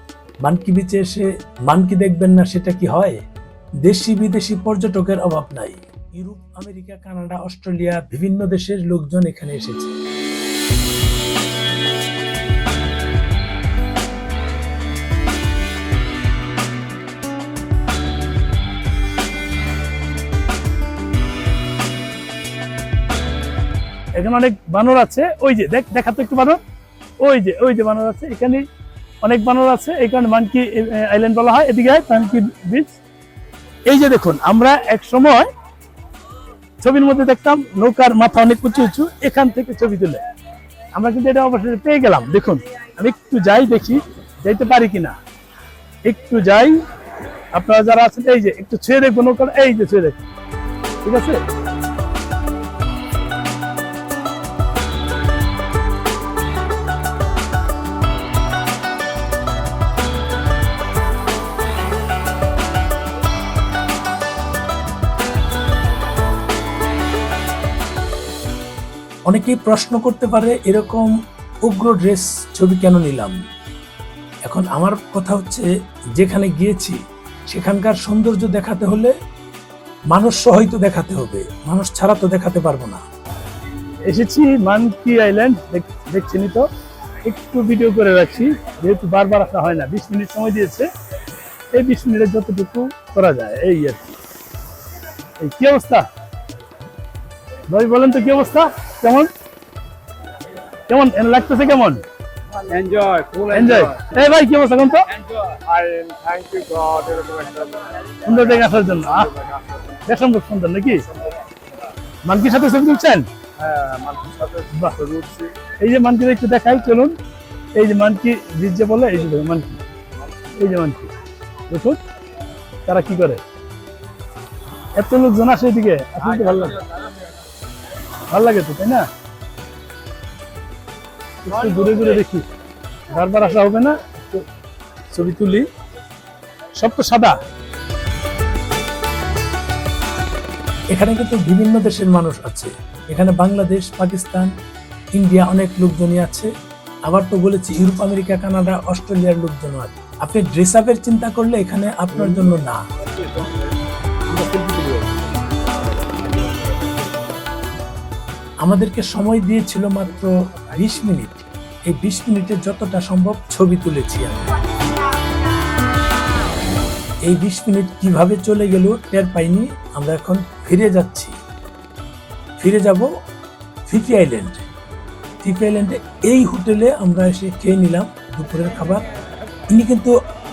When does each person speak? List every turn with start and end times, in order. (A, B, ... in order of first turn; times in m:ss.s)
0:00.4-0:03.2 A
0:03.8-0:09.9 A
0:24.1-0:26.6 B
0:27.2-0:28.7 B
0:29.2-0:32.9 B
0:33.9-0:35.5 B
0:36.8-0:40.2 B
0:40.9-0:45.2 B
0:46.0-0:46.8 B
0:47.5-0:50.2 B
0:51.0-0:51.4 B
1:09.3-1:11.1 A
1:11.6-1:13.4 A
1:14.4-1:17.0 A
1:17.5-1:19.1 A
1:20.1-1:23.0 A
1:24.0-1:26.7 B
1:27.2-1:30.9 B
1:31.7-1:34.2 B
1:35.4-1:36.1 B
1:37.7-1:39.3 B
1:40.9-1:42.0 B
1:42.6-1:43.8 C
1:43.5-1:45.2 B
1:45.4-1:47.9 C
1:48.2-1:51.1 B
1:49.5-1:49.9 C
1:52.2-1:53.3 B
1:53.6-1:55.5 C
1:54.7-1:55.0 B
1:55.7-1:57.2 B
1:57.7-1:59.8 B
2:00.4-2:01.1 B
2:01.7-2:02.0 B
2:02.8-2:03.4 B
2:05.0-2:07.0 B
2:08.1-2:09.1 B
2:11.4-2:12.4 B
2:13.1-2:14.4 B
2:15.1-2:15.7 B
2:16.8-2:17.4 B
2:20.9-2:24.5 A
2:25.2-2:26.5 A
2:27.1-2:32.8 A
2:34.3-2:35.1 B
2:38.6-2:44.5 A
2:47.2-2:51.3 A
2:52.6-2:53.1 A
2:53.9-2:54.6 A
2:55.4-2:59.0 A
2:59.7-3:00.1 A